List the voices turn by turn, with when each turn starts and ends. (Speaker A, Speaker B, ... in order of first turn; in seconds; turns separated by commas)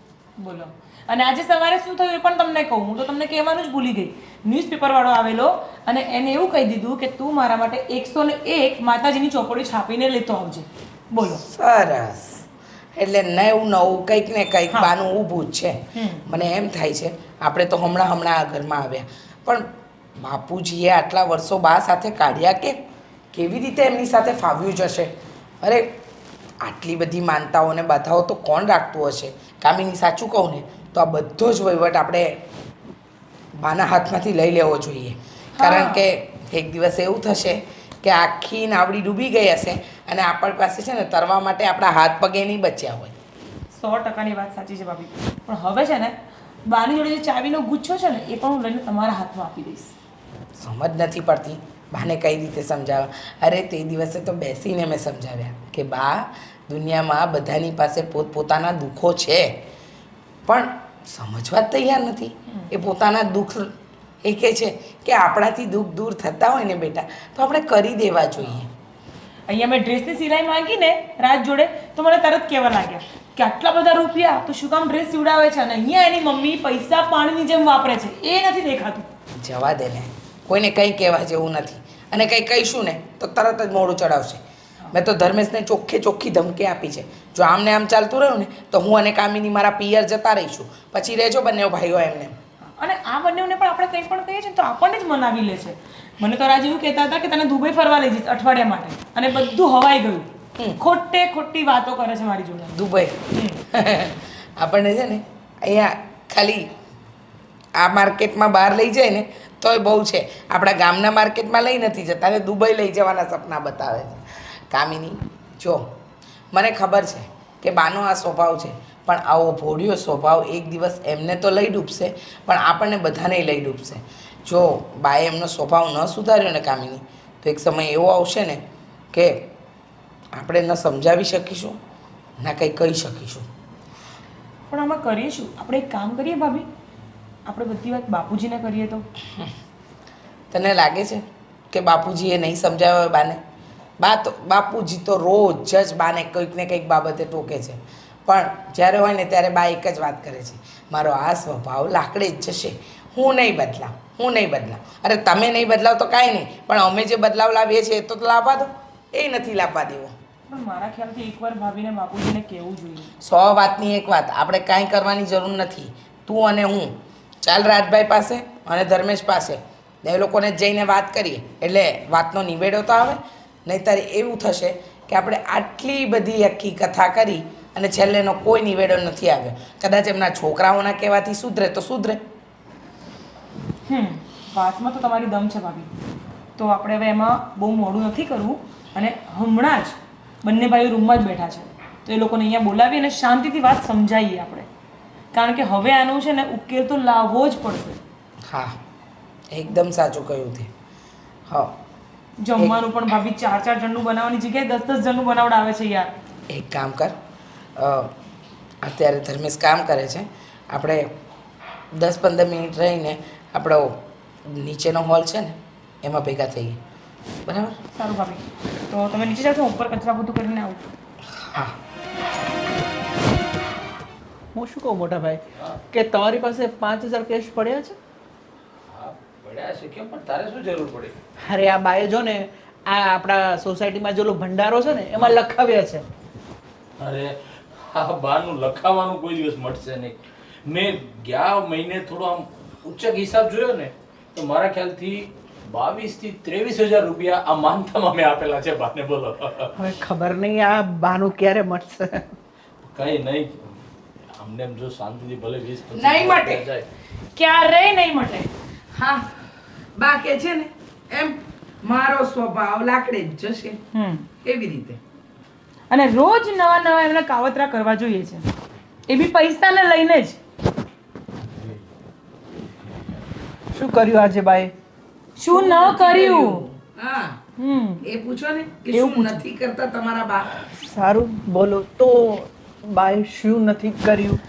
Speaker A: 0.4-11.4, Speaker B: 11.3-12.4, Speaker B: 12.9-22.8, Speaker A: 15.9-16.2, Speaker B: 23.3-26.0, Speaker B: 26.6-32.4, Speaker B: 33.6-43.1, Speaker A: 35.6-36.0, Speaker A: 43.8-46.1, Speaker A: 46.7-49.9, Speaker B: 50.6-59.6, Speaker B: 60.5-68.7, Speaker A: 69.5-79.1, Speaker B: 79.4-84.4, Speaker B: 84.9-92.4, Speaker A: 92.8-100.3, Speaker A: 100.8-103.6, Speaker B: 102.7-106.7, Speaker B: 107.8-114.2, Speaker B: 114.7-115.9, Speaker B: 116.5-129.5, Speaker B: 130.3-131.8, Speaker B: 132.4-133.5, Speaker A: 134.7-136.7, Speaker A: 137.5-139.1, Speaker B: 140.5-143.4, Speaker B: 144.0-160.2, Speaker A: 160.5-163.1, Speaker B: 163.2-182.2, Speaker A: 183.9-185.9, Speaker A: 186.6-194.7, Speaker A: 195.3-198.0, Speaker B: 198.5-198.8, Speaker B: 199.5-200.7, Speaker B: 201.5-201.7, Speaker A: 202.4-206.1, Speaker B: 206.5-207.2, Speaker B: 207.8-208.1, Speaker B: 208.8-211.1, Speaker B: 211.9-216.8, Speaker B: 217.5-217.8, Speaker A: 217.9-220.8, Speaker B: 221.4-221.8, Speaker C: 224.6-225.4, Speaker C: 225.9-228.0, Speaker D: 228.9-231.2, Speaker C: 231.4-236.0, Speaker D: 237.0-249.7, Speaker C: 249.8-252.3, Speaker D: 252.9-253.8, Speaker D: 254.3-256.9, Speaker B: 255.9-256.6, Speaker A: 257.4-258.5, Speaker B: 258.9-259.2, Speaker B: 260.0-263.8, Speaker A: 263.9-264.3, Speaker B: 264.4-265.0, Speaker A: 265.9-268.5, Speaker A: 269.1-270.4, Speaker D: 271.5-271.8, Speaker C: 273.8-274.7, Speaker A: 275.4-276.6, Speaker B: 275.5-277.4, Speaker A: 277.6-278.0, Speaker B: 278.0-280.5, Speaker A: 278.9-279.4, Speaker C: 280.8-284.4